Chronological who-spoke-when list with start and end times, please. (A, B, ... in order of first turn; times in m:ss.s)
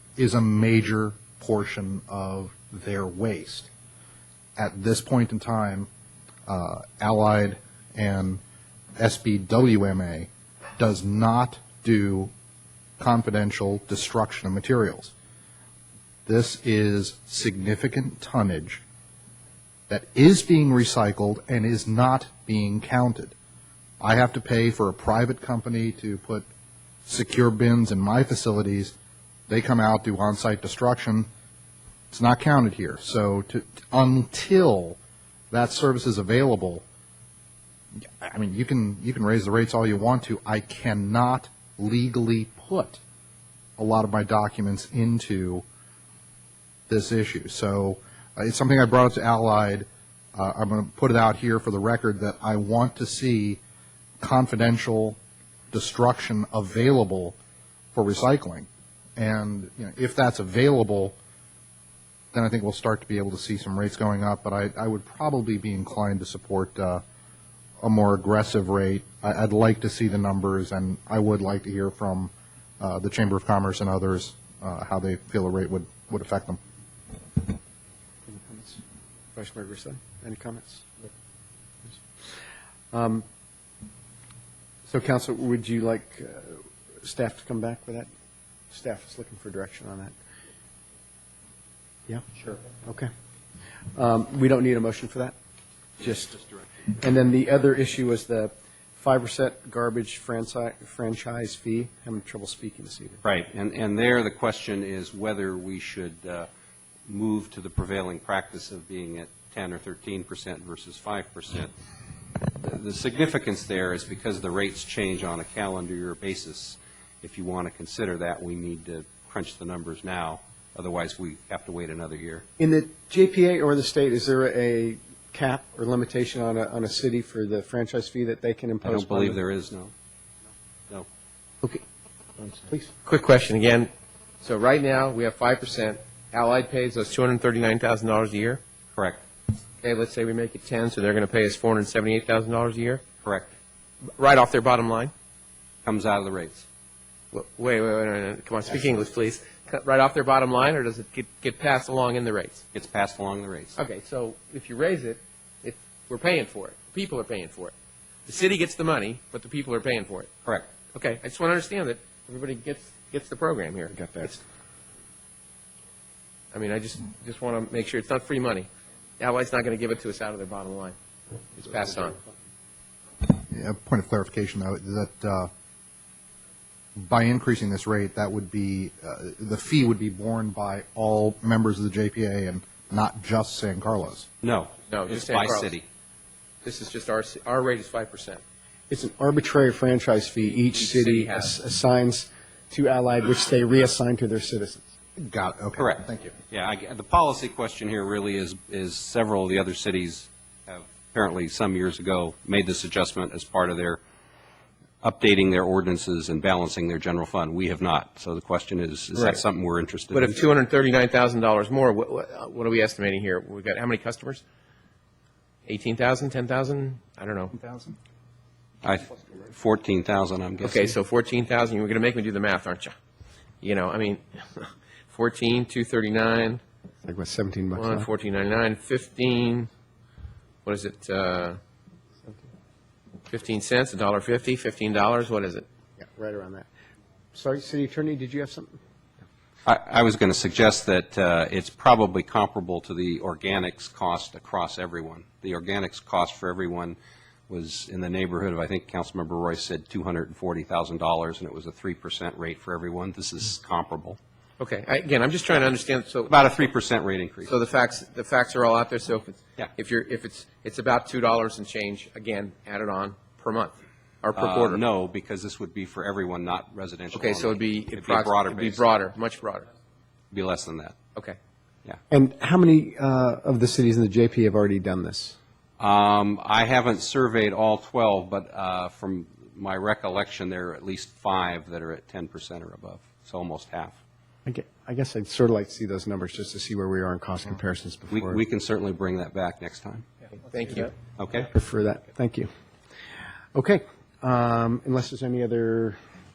0:00.2-0:03.7 A
0:04.6-0:05.9 A
0:06.5-0:08.4 A
0:09.0-0:12.3 A
0:13.0-0:15.1 A
0:16.2-0:18.8 A
0:19.9-0:23.3 A
0:24.0-0:26.4 A
0:27.0-0:28.9 A
0:29.5-0:31.3 A
0:32.1-0:35.0 A
0:35.5-0:36.8 A
0:38.0-0:43.0 A
0:43.8-0:45.6 A
0:46.9-0:53.6 A
0:54.2-0:55.2 A
0:55.7-0:57.4 A
0:57.9-1:01.2 A
1:02.3-1:07.0 A
1:07.8-1:16.6 A
1:18.3-1:18.8 B
1:19.3-1:21.1 B
1:22.9-1:23.2 B
1:24.9-1:28.1 B
1:28.7-1:30.1 B
1:32.1-1:33.1 B
1:33.9-1:35.3 B
1:36.0-1:43.2 B
1:43.2-1:46.5 C
1:47.1-1:51.7 C
1:52.6-2:02.4 C
2:02.6-2:09.4 B
2:08.8-2:09.9 C
2:13.0-2:18.6 D
2:19.0-2:19.2 C
2:19.8-2:23.0 D
2:23.2-2:23.5 C
2:24.1-2:25.1 D
2:25.8-2:26.6 C
2:27.3-2:32.6 D
2:32.7-2:33.8 C
2:33.8-2:37.7 D
2:38.2-2:40.3 D
2:40.9-2:44.4 D
2:43.9-2:44.4 B
2:46.5-2:48.7 D
2:49.2-2:51.0 D
2:51.6-2:52.2 D
2:53.2-2:55.5 A
2:57.0-3:04.3 A
3:04.4-3:05.8 C
3:04.9-3:05.8 D
3:06.6-3:08.4 D
3:08.9-3:14.9 B
3:10.7-3:11.5 D
3:15.2-3:16.3 A
3:15.8-3:24.0 C
3:25.0-3:30.4 C
3:29.1-3:29.4 D
3:30.1-3:34.4 D
3:35.6-3:37.9 D
3:38.8-3:40.9 C
3:40.6-3:42.9 D
3:43.6-3:46.6 D
3:47.0-3:48.1 B
3:47.8-3:49.7 D
3:50.6-3:51.6 D
3:53.3-3:55.6 D
3:56.0-3:56.7 B
3:57.3-3:58.8 B
3:59.6-4:07.0 C
4:07.5-4:14.2 C
4:14.6-4:16.6 D
4:16.3-4:17.5 C
4:17.4-4:24.8 D
4:24.4-4:28.8 C
4:27.1-4:29.7 D
4:30.3-4:31.0 C
4:32.1-4:35.4 B
4:35.8-4:44.0 C
4:44.4-4:48.4 B
4:48.1-4:50.0 C
4:50.4-4:50.9 D
4:51.2-4:51.5 C
4:51.5-4:52.5 B
4:53.5-4:56.0 B